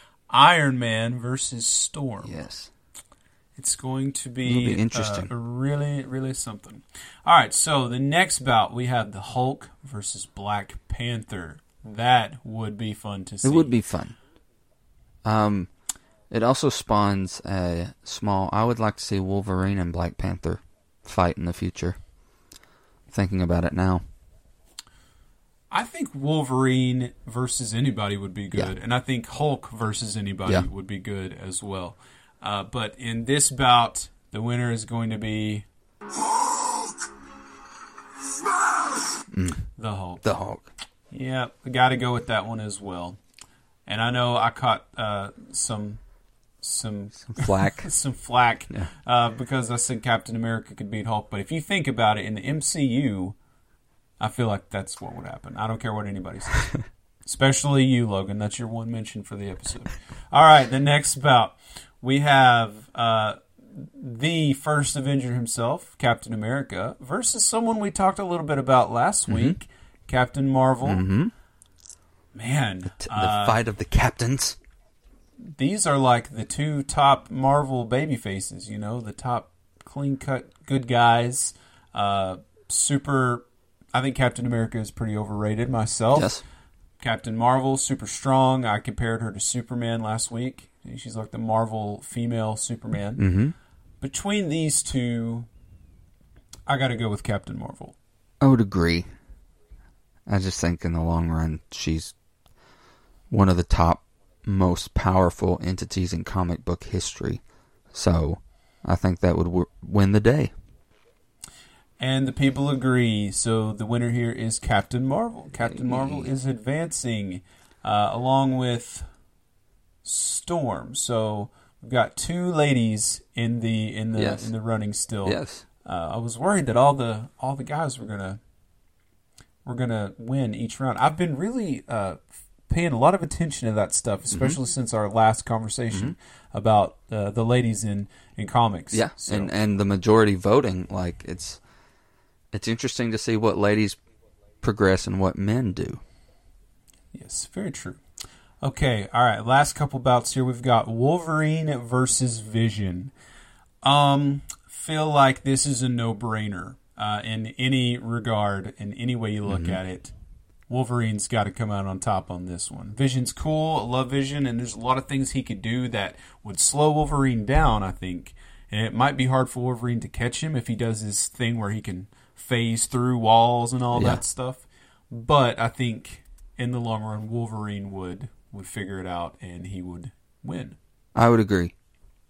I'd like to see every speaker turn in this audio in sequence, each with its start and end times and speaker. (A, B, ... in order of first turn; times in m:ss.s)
0:00.3-0:02.4 A
0:02.2-0:02.7 B
0:03.6-0:13.7 A
0:04.4-0:05.3 B
0:13.4-0:14.2 B
0:15.2-0:15.7 B
0:16.3-0:22.0 B
0:23.1-0:24.0 B
0:25.7-0:35.6 A
0:39.3-0:39.7 B
0:39.8-0:40.2 A
0:40.2-0:40.7 B
0:41.1-0:43.2 A
0:43.8-0:46.0 A
0:46.6-0:53.3 A
0:47.2-0:47.9 B
0:54.2-0:56.7 A
0:57.2-1:11.0 A
1:09.3-1:09.6 B
1:10.8-1:11.3 B
1:12.3-1:13.6 A
1:13.0-1:14.6 B
1:15.4-1:26.3 A
1:26.1-1:26.4 B
1:27.0-1:33.2 A
1:33.2-1:33.5 B
1:34.0-1:35.5 A
1:36.7-1:37.9 A
1:38.4-1:39.1 B
1:40.3-1:42.1 B
1:43.3-1:47.4 B
1:47.9-1:50.5 B
1:52.0-1:59.1 A
1:55.6-1:56.3 B
2:00.0-2:08.4 A
2:04.1-2:04.5 B
2:05.2-2:05.6 B
2:09.6-2:19.5 A
2:14.3-2:14.6 B
2:18.9-2:21.6 B
2:22.5-2:24.0 B
2:24.6-2:26.0 B
2:27.1-2:28.0 A
2:28.6-2:33.1 A
2:33.8-2:40.1 A
2:39.4-2:39.8 B
2:40.7-3:00.8 A
2:53.9-2:54.2 B
3:01.1-3:01.7 B